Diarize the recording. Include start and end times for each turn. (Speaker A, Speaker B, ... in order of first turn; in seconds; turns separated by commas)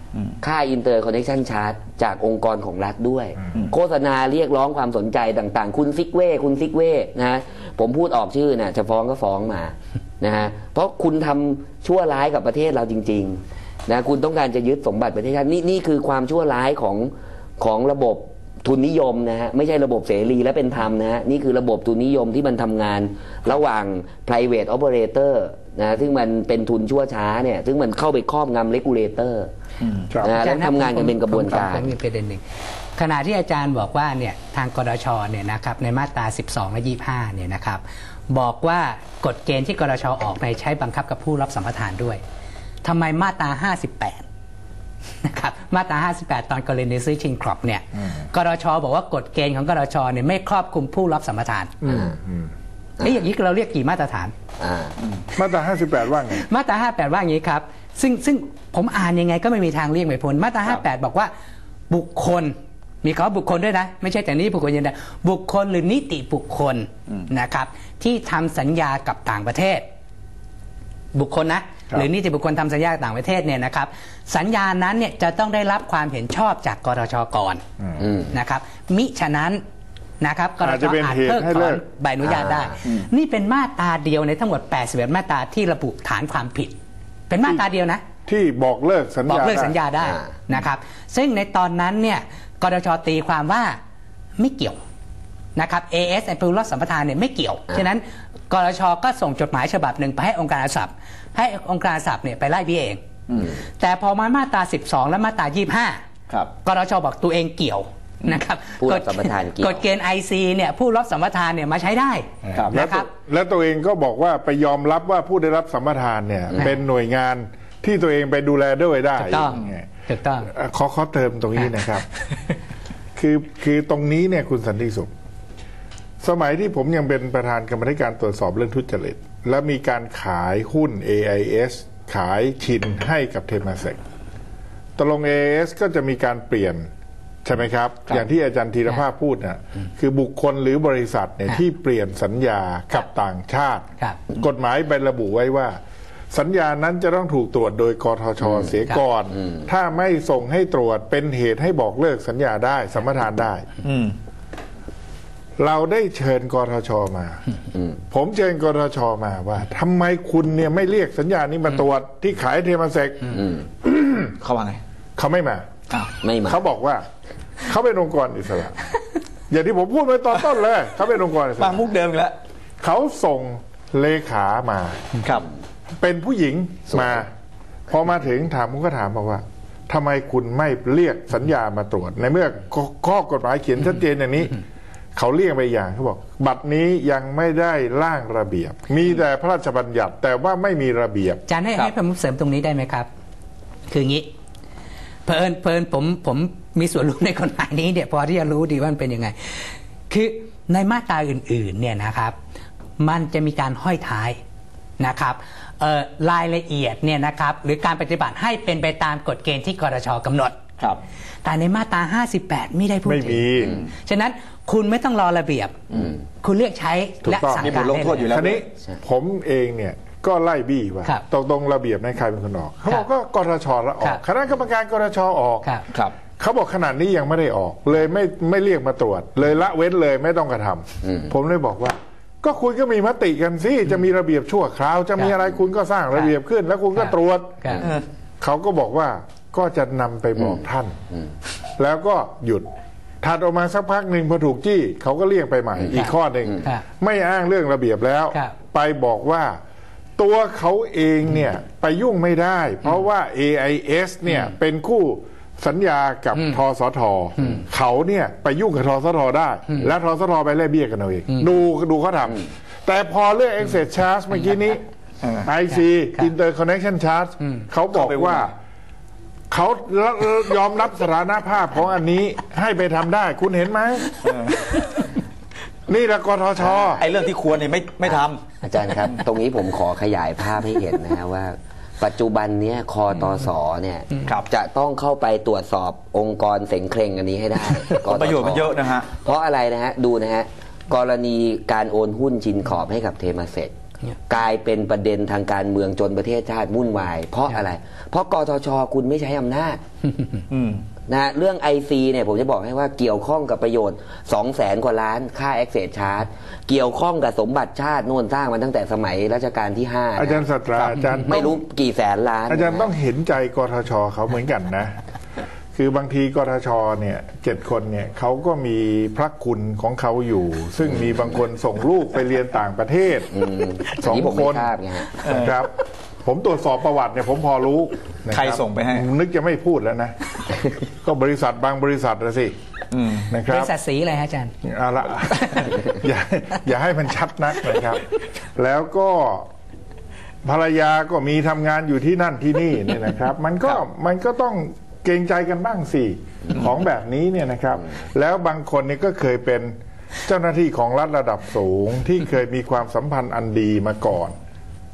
Speaker A: 0.4-29.5, Speaker B: 29.8-30.1, Speaker A: 30.2-31.9, Speaker C: 30.2-32.4, Speaker C: 33.0-42.2, Speaker C: 42.8-44.2, Speaker C: 45.2-51.7, Speaker D: 51.8-52.5, Speaker A: 51.8-52.2, Speaker C: 53.0-54.3, Speaker A: 54.6-55.0, Speaker D: 55.3-56.4, Speaker C: 56.3-61.3, Speaker C: 61.9-69.8, Speaker C: 71.1-77.6, Speaker D: 77.8-78.1, Speaker A: 78.0-78.3, Speaker C: 78.3-79.6, Speaker C: 80.2-86.7, Speaker D: 80.6-81.8, Speaker A: 82.2-82.8, Speaker C: 87.3-88.0, Speaker D: 88.3-89.7, Speaker C: 89.3-93.8, Speaker A: 90.0-90.4, Speaker C: 94.4-94.8, Speaker C: 95.5-103.0, Speaker B: 103.3-103.6, Speaker C: 103.8-106.0, Speaker C: 106.6-113.1, Speaker A: 108.8-109.8, Speaker D: 112.4-119.9, Speaker C: 119.2-120.5, Speaker D: 120.4-122.0, Speaker D: 123.2-125.1, Speaker D: 126.2-134.0, Speaker D: 135.0-136.9, Speaker D: 137.4-145.8, Speaker D: 146.3-153.7, Speaker A: 148.4-148.7, Speaker A: 149.3-149.7, Speaker B: 153.8-154.1, Speaker D: 155.6-157.4, Speaker A: 157.7-158.0, Speaker D: 158.1-164.1, Speaker A: 163.3-163.7, Speaker B: 164.3-164.8, Speaker D: 165.2-165.7, Speaker A: 166.2-166.6, Speaker D: 166.4-167.0, Speaker D: 167.6-168.8, Speaker D: 169.5-171.8, Speaker B: 171.6-172.3, Speaker D: 172.8-175.0, Speaker D: 176.0-177.3, Speaker A: 176.9-177.2, Speaker D: 177.9-184.6, Speaker D: 185.2-191.4, Speaker C: 191.5-193.1, Speaker C: 193.9-194.3, Speaker C: 195.2-202.3, Speaker C: 203.0-204.4, Speaker C: 205.0-210.6, Speaker C: 211.4-218.4, Speaker D: 213.0-213.8, Speaker D: 217.2-225.7, Speaker B: 217.6-218.6, Speaker D: 226.4-237.8, Speaker A: 231.0-231.3, Speaker C: 236.9-237.9, Speaker D: 238.4-240.9, Speaker A: 240.4-241.3, Speaker D: 241.8-242.7, Speaker D: 243.2-249.6, Speaker C: 245.9-246.8, Speaker D: 250.2-264.8, Speaker C: 257.4-257.6, Speaker B: 265.2-265.5, Speaker D: 265.4-268.6, Speaker B: 267.9-268.5, Speaker D: 269.5-274.2, Speaker B: 274.2-274.7, Speaker D: 275.9-277.1, Speaker B: 276.7-278.4, Speaker A: 278.1-293.7, Speaker B: 287.9-289.1, Speaker A: 294.3-299.8, Speaker B: 300.5-300.8, Speaker A: 301.1-312.9, Speaker D: 310.1-311.6, Speaker D: 312.5-315.0, Speaker D: 315.7-323.3, Speaker A: 320.9-321.3, Speaker A: 323.3-325.1, Speaker D: 323.9-324.7, Speaker B: 325.2-325.5, Speaker D: 325.2-330.1, Speaker B: 328.3-329.0, Speaker D: 331.0-332.5, Speaker B: 332.9-333.3, Speaker D: 333.3-333.7, Speaker C: 333.5-334.5, Speaker D: 334.6-339.5, Speaker C: 335.3-335.8, Speaker D: 340.4-354.3